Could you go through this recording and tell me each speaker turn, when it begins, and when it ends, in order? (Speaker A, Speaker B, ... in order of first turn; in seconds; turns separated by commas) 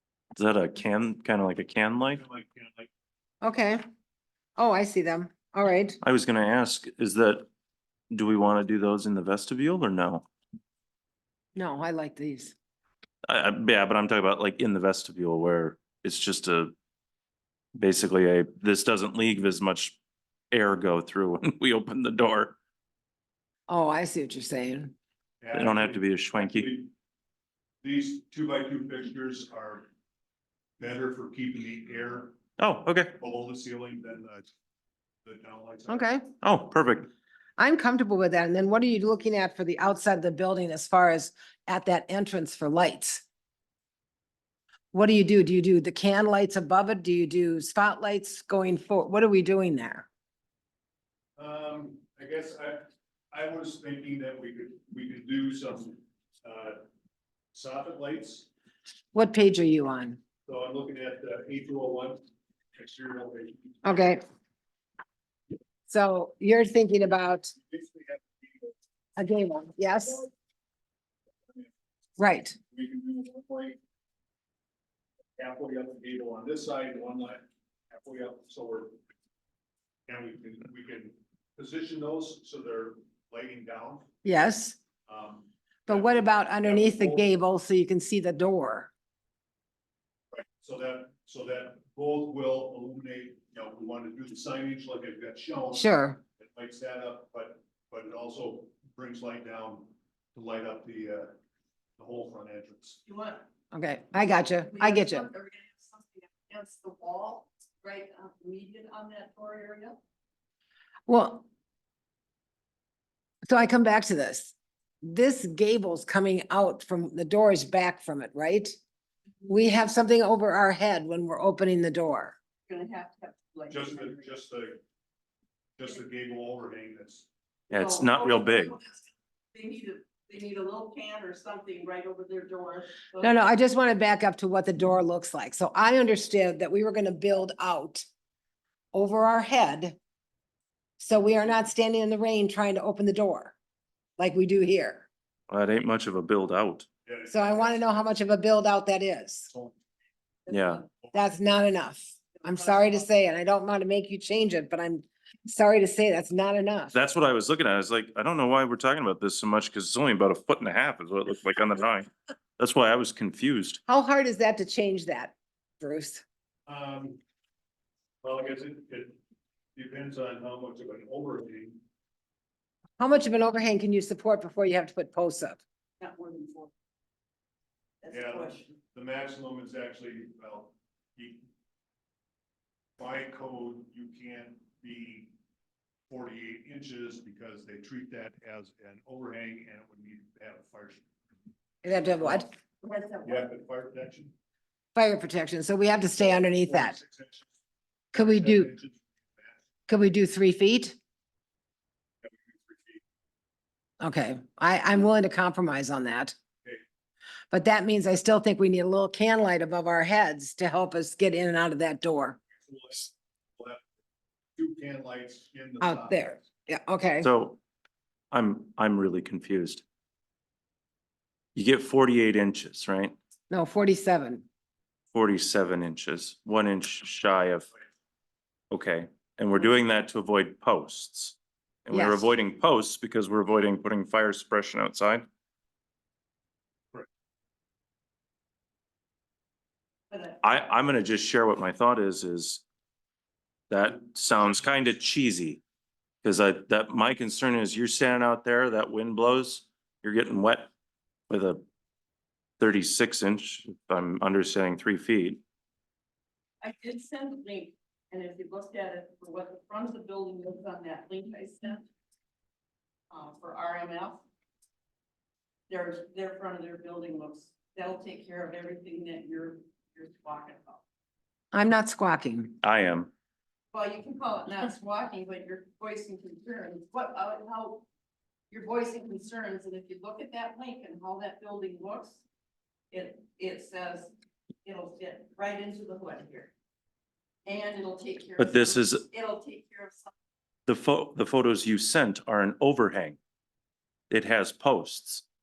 Speaker A: 0.3-2.2, Speaker B: 2.1-2.9, Speaker C: 3.4-3.8, Speaker C: 4.6-6.0, Speaker A: 6.0-7.5, Speaker A: 8.1-10.3, Speaker C: 11.6-12.5, Speaker A: 13.2-16.7, Speaker A: 17.8-20.0, Speaker A: 20.5-22.6, Speaker C: 23.7-24.9, Speaker B: 25.4-26.9, Speaker A: 25.5-26.7, Speaker B: 27.8-29.9, Speaker B: 30.8-32.4, Speaker A: 32.6-33.2, Speaker B: 33.2-34.5, Speaker B: 35.2-36.2, Speaker C: 35.9-36.2, Speaker A: 36.4-37.1, Speaker C: 37.6-43.2, Speaker C: 44.9-50.1, Speaker B: 51.4-56.8, Speaker B: 57.5-58.5, Speaker C: 59.1-60.2, Speaker B: 60.5-62.2, Speaker B: 62.8-64.0, Speaker C: 63.8-64.2, Speaker C: 65.9-67.5, Speaker B: 67.5-68.7, Speaker C: 69.2-70.3, Speaker C: 72.2-72.6, Speaker B: 72.7-73.8, Speaker B: 75.4-79.0, Speaker B: 80.1-84.1, Speaker C: 84.2-84.8, Speaker B: 85.1-87.3, Speaker C: 85.9-88.9, Speaker B: 90.3-101.4, Speaker C: 95.7-96.2, Speaker B: 102.0-103.0, Speaker D: 103.1-103.4, Speaker C: 103.7-105.3, Speaker D: 104.7-110.0, Speaker C: 111.1-111.5, Speaker C: 113.5-118.8, Speaker C: 119.5-122.4, Speaker D: 122.7-124.2, Speaker B: 123.7-124.8, Speaker B: 125.8-127.3, Speaker A: 127.7-128.8, Speaker D: 127.7-133.4, Speaker C: 133.2-138.1, Speaker C: 138.9-140.0, Speaker C: 141.0-143.6, Speaker C: 144.2-145.1, Speaker A: 145.5-146.9, Speaker B: 147.1-148.1, Speaker C: 147.3-149.5, Speaker B: 149.5-149.8, Speaker D: 150.5-150.9, Speaker A: 150.5-150.8, Speaker C: 151.1-156.9, Speaker D: 152.4-153.1, Speaker A: 156.9-163.8, Speaker C: 163.9-166.2, Speaker B: 166.7-167.2, Speaker B: 168.2-169.2, Speaker B: 169.8-171.8, Speaker C: 173.0-175.6, Speaker D: 176.0-176.7, Speaker D: 178.0-178.7, Speaker B: 178.1-181.4, Speaker B: 183.0-185.3, Speaker B: 186.1-191.1, Speaker C: 191.8-192.5, Speaker B: 192.2-192.4, Speaker D: 192.8-193.5, Speaker B: 193.2-194.3, Speaker C: 194.9-197.0, Speaker B: 196.2-197.6, Speaker C: 198.1-198.7, Speaker B: 198.1-199.7, Speaker C: 199.9-201.0, Speaker B: 202.2-203.0, Speaker C: 204.0-206.3, Speaker C: 207.5-212.4, Speaker B: 212.6-213.8, Speaker B: 214.6-216.4, Speaker C: 215.8-217.3, Speaker A: 217.2-217.6, Speaker A: 218.3-219.8, Speaker A: 221.6-223.2, Speaker C: 223.5-224.4, Speaker A: 225.1-227.7, Speaker A: 228.7-235.3, Speaker C: 231.9-232.3, Speaker D: 240.1-240.4, Speaker A: 240.4-242.6, Speaker A: 243.7-245.6, Speaker B: 244.3-244.9, Speaker A: 246.2-250.7, Speaker A: 251.3-251.6, Speaker A: 252.6-255.4, Speaker D: 256.6-261.9, Speaker D: 263.1-264.2, Speaker D: 265.7-270.8, Speaker C: 271.5-272.6, Speaker A: 272.6-273.1, Speaker D: 273.7-277.9, Speaker D: 278.5-282.2, Speaker D: 282.9-284.1, Speaker D: 284.6-286.5, Speaker D: 287.5-290.1, Speaker A: 288.4-289.0, Speaker A: 290.7-293.2, Speaker A: 294.1-295.2